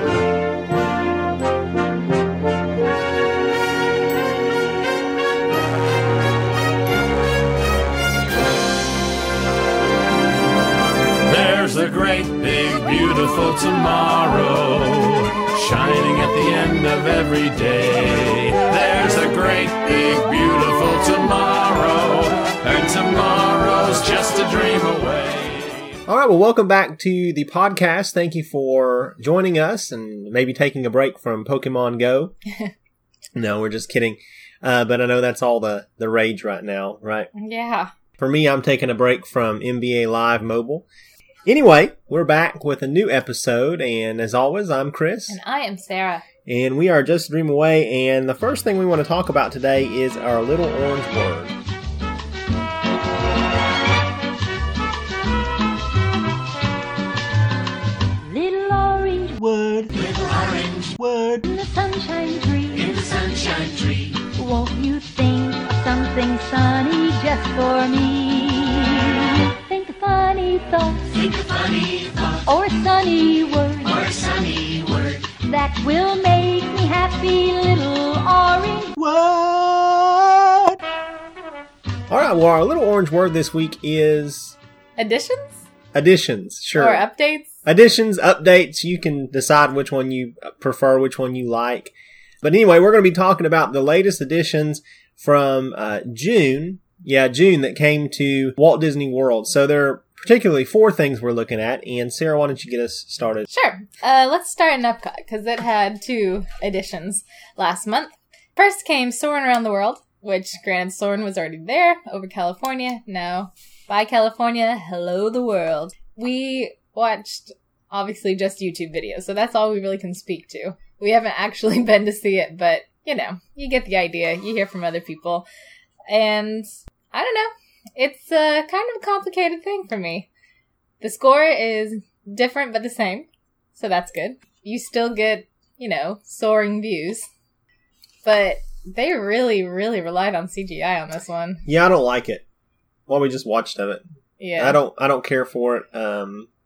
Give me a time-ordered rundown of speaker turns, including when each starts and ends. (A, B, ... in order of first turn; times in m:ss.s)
0:11.2-0:26.0 A
0:26.1-0:32.3 B
0:33.3-0:37.3 B
0:37.3-0:37.9 C
0:38.2-0:40.8 B
0:41.4-0:45.4 B
0:45.3-0:46.2 C
0:46.4-0:51.5 B
0:58.2-0:59.4 D
0:59.4-0:59.9 B
1:00.0-1:00.9 D
1:01.0-1:01.5 B
1:01.4-1:18.9 D
1:19.0-1:20.8 B
1:22.1-1:24.6 B
1:25.0-1:25.6 C
1:25.9-1:27.0 B
1:26.8-1:27.5 C
1:27.6-1:43.5 B
1:43.5-2:05.4 C
2:06.1-2:10.3 C
2:11.0-2:13.2 C
2:13.8-2:17.3 C
2:18.2-2:21.6 C
2:21.6-2:22.4 B
2:23.1-2:24.0 B
2:24.4-2:24.8 C
2:24.6-2:26.5 B